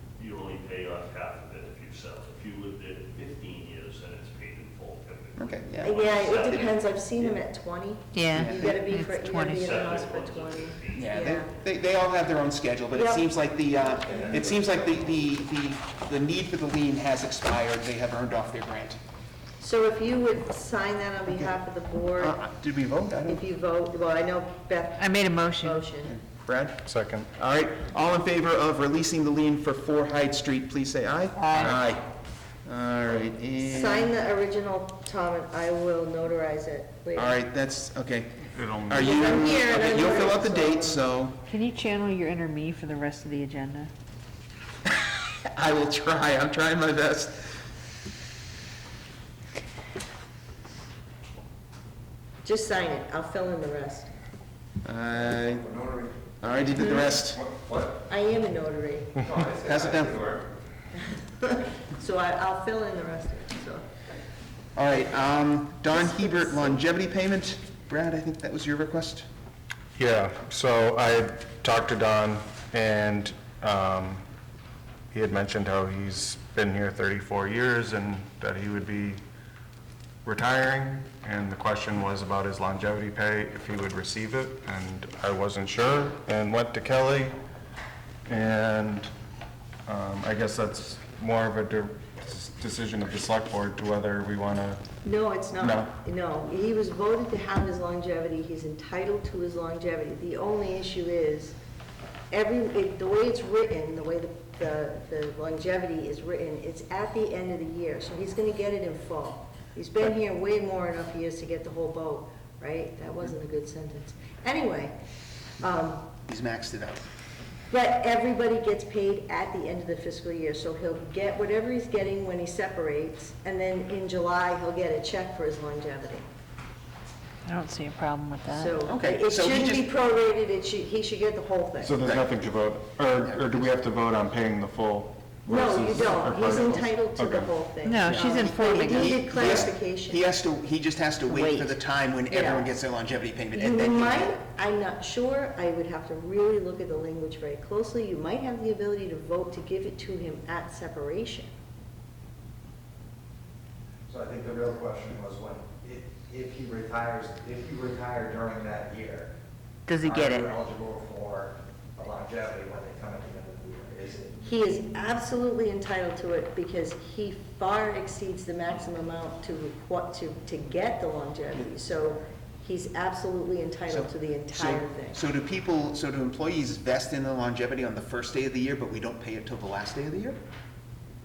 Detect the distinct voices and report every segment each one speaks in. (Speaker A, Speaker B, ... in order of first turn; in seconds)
Speaker A: 0.2-6.7, 9.5-11.2
Speaker B: 5.4-7.4, 8.3-8.8, 10.9-19.0, 22.2-23.4, 26.1-26.8, 27.3-32.0, 32.6-34.1, 37.1-41.4, 45.5-47.6, 54.8-55.7, 56.4-57.4, 59.5-60.3, 64.7-69.3, 116.3-117.0, 128.8-129.9, 138.0-144.4, 173.9-180.4
Speaker C: 5.8-11.5, 12.9-13.3, 13.8-14.7, 19.6-22.3, 23.2-26.1, 33.6-37.4, 39.0-41.0, 52.4-54.1, 56.8-57.1, 58.0-59.2, 61.1-63.9, 65.9-66.8, 95.0-101.6, 102.3-114.9, 115.6-116.1, 117.7-126.2, 128.4-132.0, 135.5-140.2, 142.3-142.7, 143.5-151.5, 164.4-175.2
Speaker D: 8.1-9.6, 25.0-25.9, 31.4-31.8, 41.5-43.9, 127.5-128.8, 137.8-139.6, 141.2-141.7, 159.9-160.5
Speaker E: 14.2-14.5, 55.3-56.2, 57.3-58.0, 59.2-60.4, 154.1-159.3, 160.0-164.4
Speaker F: 26.8-27.3, 38.5-39.6, 70.0-74.2, 75.1-79.2, 80.2-87.4, 88.3-89.1, 89.9-94.8, 131.8-137.5